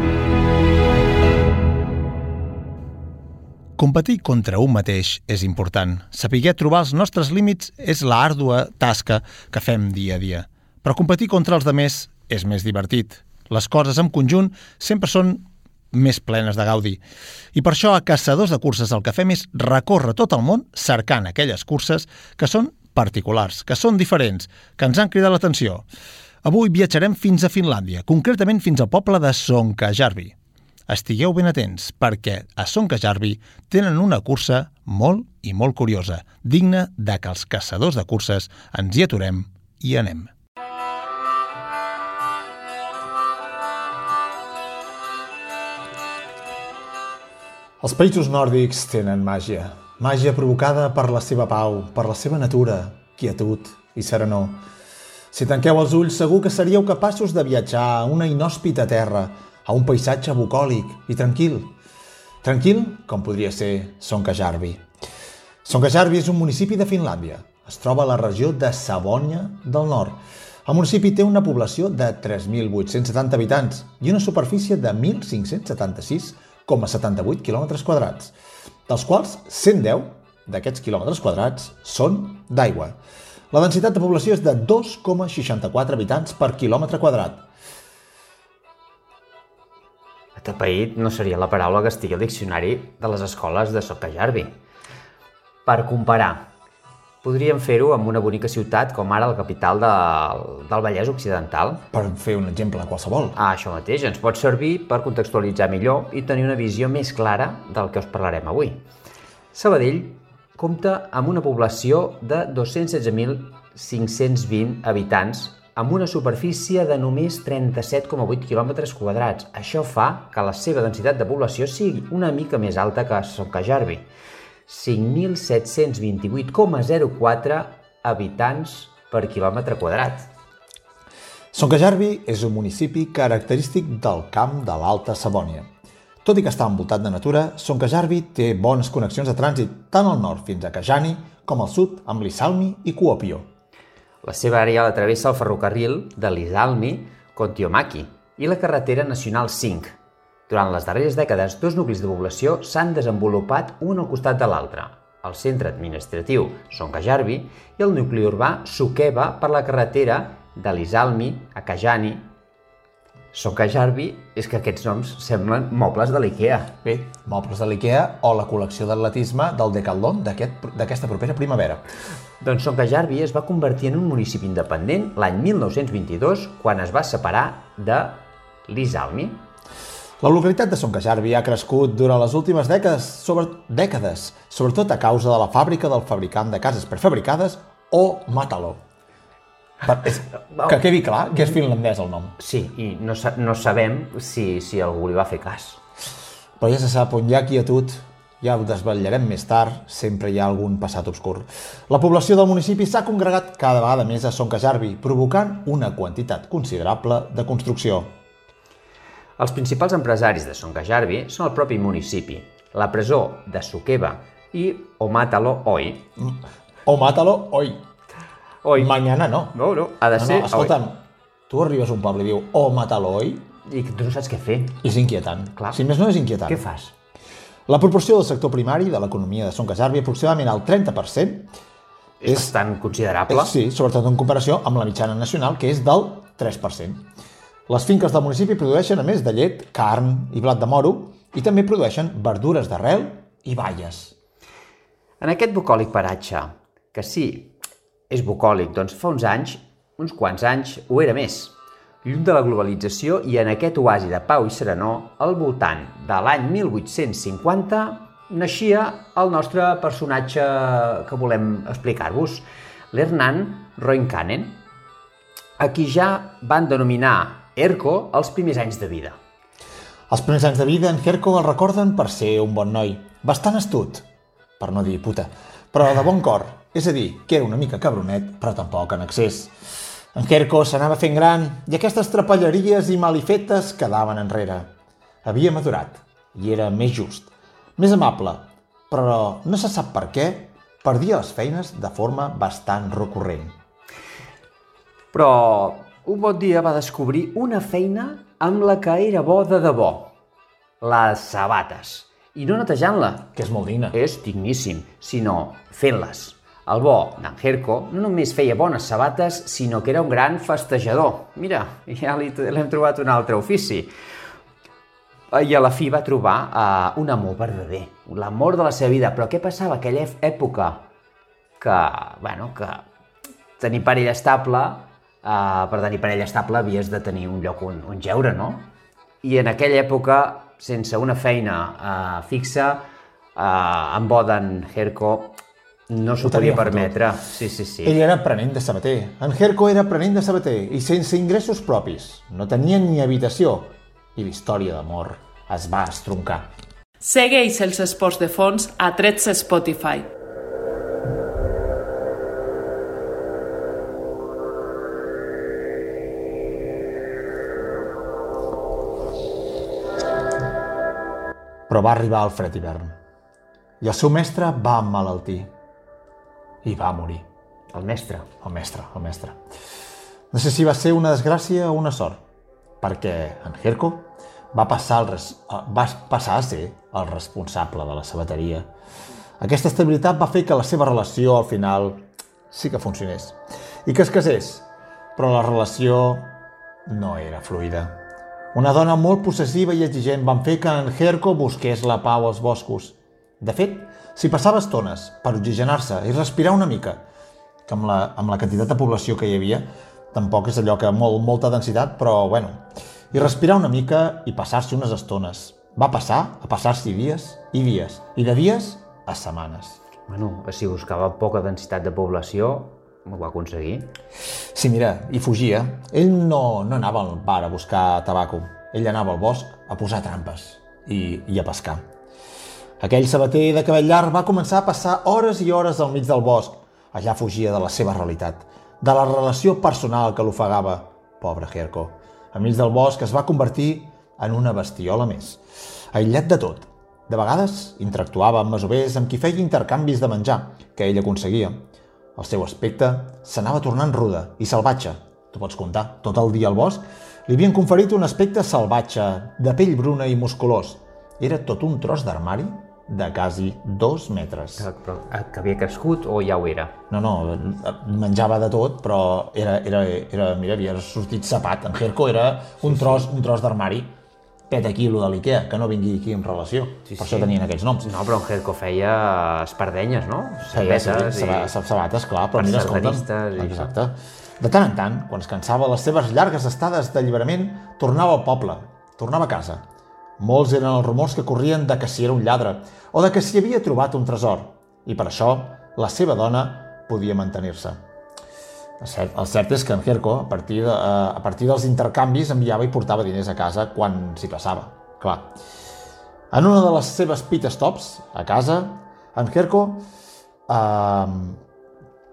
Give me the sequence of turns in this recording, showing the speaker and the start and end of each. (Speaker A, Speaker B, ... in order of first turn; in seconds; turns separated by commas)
Speaker A: 3.8-17.0, Speaker A: 17.5-25.9, Speaker A: 26.4-30.3, Speaker A: 30.9-40.3, Speaker A: 47.8-54.6, Speaker A: 55.3-61.7, Speaker A: 62.4-64.8, Speaker A: 65.6-78.3, Speaker A: 78.9-83.0, Speaker A: 83.5-87.4, Speaker B: 90.4-94.5, Speaker B: 95.7-96.5, Speaker B: 97.2-101.8, Speaker A: 101.9-103.4, Speaker B: 103.3-108.8, Speaker B: 109.5-124.1, Speaker B: 124.7-130.3, Speaker A: 131.5-135.7, Speaker A: 136.2-143.5, Speaker B: 144.2-149.9, Speaker B: 150.5-162.3, Speaker B: 163.3-166.7, Speaker A: 166.8-171.8, Speaker B: 172.4-179.4, Speaker A: 180.2-188.8, Speaker B: 189.8-191.6, Speaker A: 189.8-192.3, Speaker B: 192.4-195.8, Speaker A: 196.6-208.1, Speaker B: 209.4-216.0, Speaker A: 216.2-217.8, Speaker B: 218.6-219.0, Speaker A: 218.7-219.6, Speaker B: 219.5-220.8, Speaker A: 220.1-223.5, Speaker B: 223.6-224.8, Speaker A: 224.8-226.6, Speaker B: 225.6-225.8, Speaker B: 226.4-226.9, Speaker A: 227.7-231.5, Speaker B: 232.2-233.5, Speaker A: 232.2-232.5, Speaker A: 233.3-237.1, Speaker A: 237.7-244.1, Speaker B: 245.2-247.5, Speaker B: 248.1-264.6, Speaker B: 265.6-269.2, Speaker A: 270.1-274.0, Speaker A: 274.6-279.5, Speaker A: 280.1-284.7, Speaker A: 285.2-293.5, Speaker B: 295.1-300.1, Speaker B: 300.8-303.3, Speaker A: 303.3-303.9, Speaker B: 303.9-313.9, Speaker B: 315.3-320.8, Speaker B: 321.6-322.9, Speaker B: 323.6-328.6, Speaker B: 329.2-332.8, Speaker B: 333.4-335.4, Speaker B: 335.9-338.0, Speaker A: 336.2-337.0, Speaker A: 337.8-346.5, Speaker C: 347.0-350.1, Speaker A: 361.7-362.9, Speaker A: 363.8-365.5, Speaker A: 366.6-367.2, Speaker B: 367.7-368.3, Speaker A: 368.4-369.4, Speaker A: 370.3-372.2, Speaker A: 372.8-378.7, Speaker A: 379.4-386.3, Speaker A: 386.9-388.0, Speaker A: 388.5-397.0, Speaker A: 397.6-409.8, Speaker B: 410.1-413.9, Speaker A: 414.5-421.8, Speaker A: 422.8-435.4, Speaker A: 435.9-441.6, Speaker A: 442.1-454.6, Speaker B: 454.6-456.7, Speaker A: 456.9-463.9, Speaker B: 462.6-463.1, Speaker A: 464.5-467.9, Speaker B: 466.9-471.5, Speaker A: 470.5-479.6, Speaker B: 472.3-473.7, Speaker A: 480.2-487.8, Speaker A: 488.8-495.3, Speaker A: 496.3-499.8, Speaker A: 500.5-501.4